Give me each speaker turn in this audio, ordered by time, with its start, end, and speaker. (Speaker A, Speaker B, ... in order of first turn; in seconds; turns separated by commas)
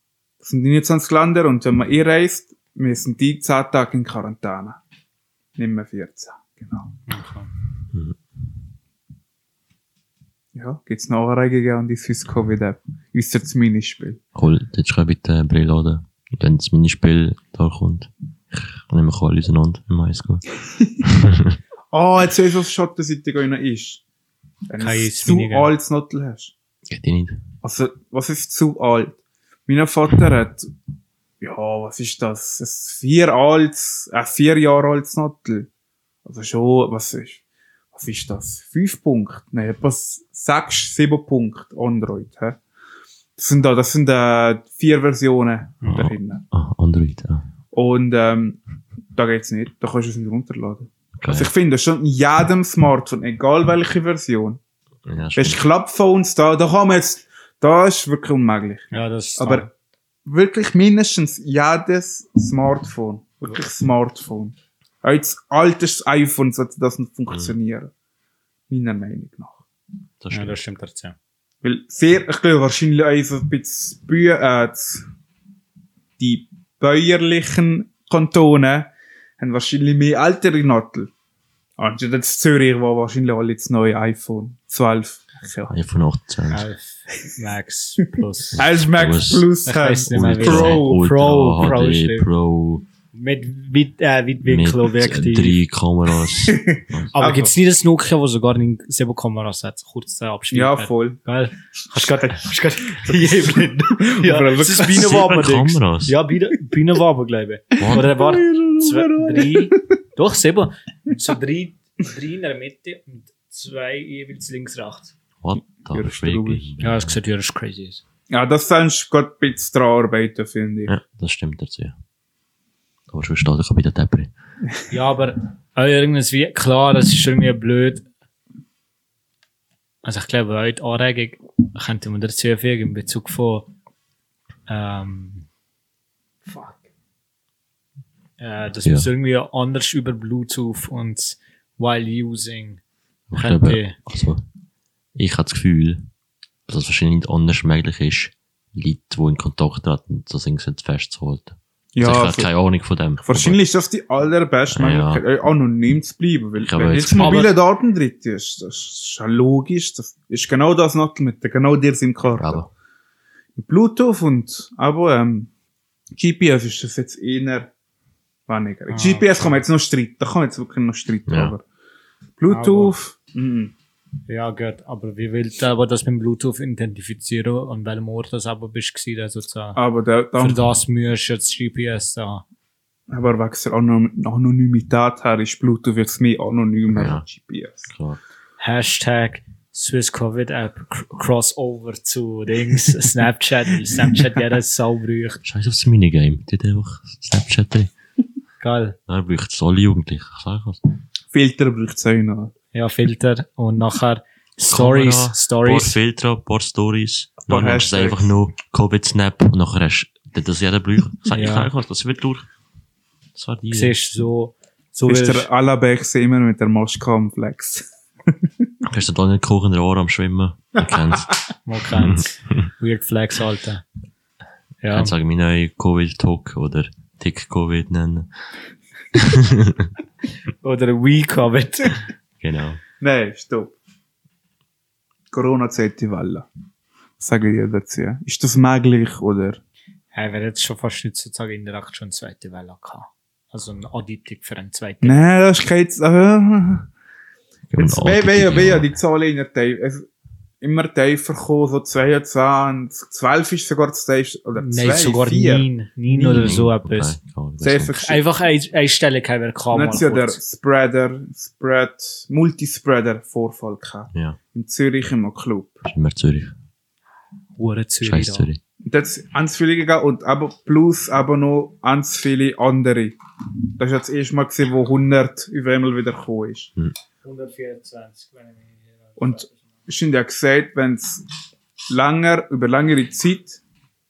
Speaker A: 0.4-4.8, Speaker A: 5.6-7.0, Speaker B: 7.1-7.5, Speaker A: 10.5-14.2, Speaker C: 14.3-20.5, Speaker C: 21.1-21.6, Speaker A: 21.9-24.0, Speaker A: 24.7-26.5, Speaker B: 24.8-25.7, Speaker C: 26.9-27.4, Speaker A: 27.6-30.7, Speaker A: 31.4-35.7, Speaker A: 36.2-42.6, Speaker A: 43.4-46.4, Speaker C: 45.9-47.5, Speaker A: 47.7-48.6, Speaker A: 49.1-54.6, Speaker C: 51.2-51.5, Speaker C: 55.1-55.6, Speaker A: 55.4-59.7, Speaker B: 58.9-59.7, Speaker A: 60.3-67.9, Speaker A: 68.7-69.6, Speaker C: 70.2-70.6, Speaker B: 70.3-71.2, Speaker A: 71.6-75.1, Speaker A: 76.2-81.1, Speaker A: 81.8-85.7, Speaker C: 85.7-86.7, Speaker B: 86.5-88.7, Speaker C: 88.5-89.5, Speaker A: 88.6-91.0, Speaker B: 89.7-92.3, Speaker C: 90.1-92.9, Speaker B: 93.1-95.6, Speaker C: 94.5-97.1, Speaker A: 96.4-97.5, Speaker B: 97.1-115.1, Speaker A: 100.5-101.2, Speaker A: 102.0-102.4, Speaker A: 103.0-105.2, Speaker C: 104.8-106.2, Speaker C: 107.8-108.1, Speaker A: 107.9-109.8, Speaker C: 115.4-117.2, Speaker A: 115.9-116.7, Speaker B: 116.8-118.0, Speaker A: 118.3-120.9, Speaker C: 120.9-122.0, Speaker C: 123.1-124.3, Speaker B: 124.9-128.1, Speaker B: 130.0-133.7, Speaker B: 134.7-135.5, Speaker B: 136.4-136.8, Speaker B: 138.4-142.8, Speaker C: 143.3-144.4, Speaker B: 143.3-144.0, Speaker C: 145.2-146.1, Speaker C: 146.7-153.6, Speaker A: 151.9-152.5, Speaker A: 153.2-162.6, Speaker C: 154.7-155.2, Speaker C: 156.6-157.4, Speaker B: 157.2-157.6, Speaker C: 162.4-162.7, Speaker A: 163.6-165.5, Speaker A: 166.2-167.7, Speaker A: 168.5-171.6, Speaker B: 168.9-169.6, Speaker C: 171.3-171.6, Speaker A: 172.4-173.7, Speaker B: 172.5-173.0, Speaker B: 174.3-179.8, Speaker A: 179.8-180.7, Speaker B: 180.4-182.4, Speaker A: 183.1-187.9, Speaker C: 186.9-187.3, Speaker C: 187.9-188.2, Speaker B: 188.6-195.4, Speaker C: 195.4-197.9, Speaker B: 198.6-199.0, Speaker C: 199.1-200.8, Speaker A: 201.3-202.5, Speaker B: 202.7-206.0, Speaker C: 204.7-212.5, Speaker A: 207.5-208.3, Speaker B: 211.3-211.7, Speaker C: 213.3-214.0, Speaker B: 213.7-215.5, Speaker A: 215.1-218.7, Speaker C: 218.8-221.4, Speaker B: 221.7-223.8, Speaker C: 221.9-222.7, Speaker B: 224.8-225.1, Speaker C: 224.9-228.3, Speaker C: 229.2-229.9, Speaker B: 230.6-232.1, Speaker C: 232.4-232.8, Speaker A: 233.0-233.8, Speaker A: 235.3-236.5, Speaker A: 237.2-239.6, Speaker B: 240.1-245.2, Speaker A: 245.0-246.9, Speaker C: 247.7-248.9, Speaker A: 247.8-250.1, Speaker A: 250.6-255.7, Speaker B: 254.6-257.2, Speaker C: 256.2-258.0, Speaker A: 257.6-258.2, Speaker B: 258.0-260.4, Speaker A: 259.7-265.8, Speaker C: 264.1-264.4, Speaker C: 265.9-266.6, Speaker B: 267.6-268.5, Speaker C: 268.0-268.6, Speaker A: 268.8-273.2, Speaker A: 273.8-276.7, Speaker B: 277.2-279.6, Speaker A: 279.2-281.3, Speaker A: 281.9-283.6